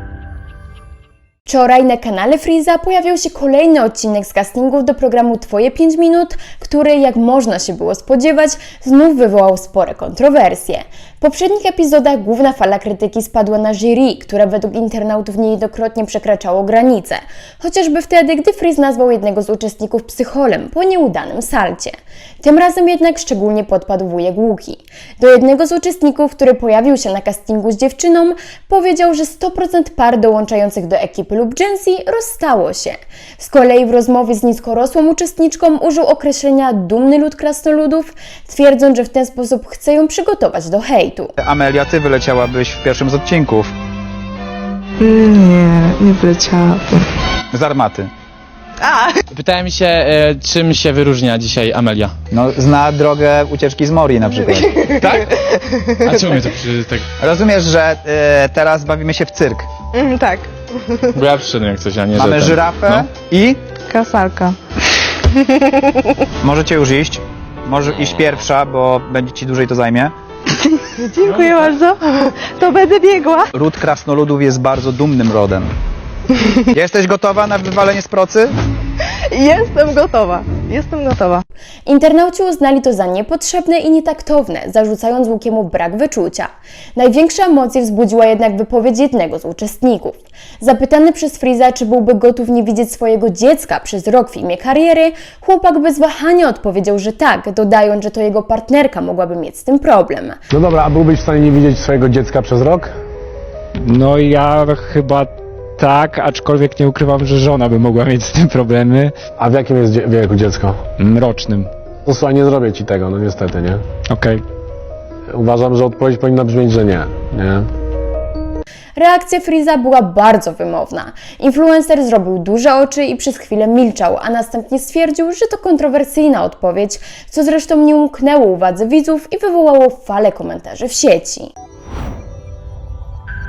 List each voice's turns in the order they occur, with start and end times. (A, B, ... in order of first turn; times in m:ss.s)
0:01.4-0:41.3 A
0:41.4-0:43.7 B
0:45.0-0:47.0 C
0:47.5-0:48.1 B
0:49.3-0:52.1 D
0:52.3-0:55.3 B
0:56.0-0:57.0 D
0:57.2-0:59.7 B
1:00.0-1:00.5 C
1:01.1-1:03.1 D
1:02.1-1:03.6 B
1:03.9-1:04.6 C
1:06.4-1:10.1 B
1:07.9-1:08.3 D
1:11.0-1:13.5 C
1:13.5-1:15.7 B
1:16.7-1:18.5 B
1:19.3-1:21.4 C
1:21.8-1:40.4 A
1:40.5-1:42.9 E
1:43.8-1:49.2 F
1:49.4-1:50.8 E
1:50.9-1:51.7 F
1:52.0-1:53.8 E
1:54.1-1:54.4 F
1:55.3-1:57.7 E
1:59.0-2:11.5 A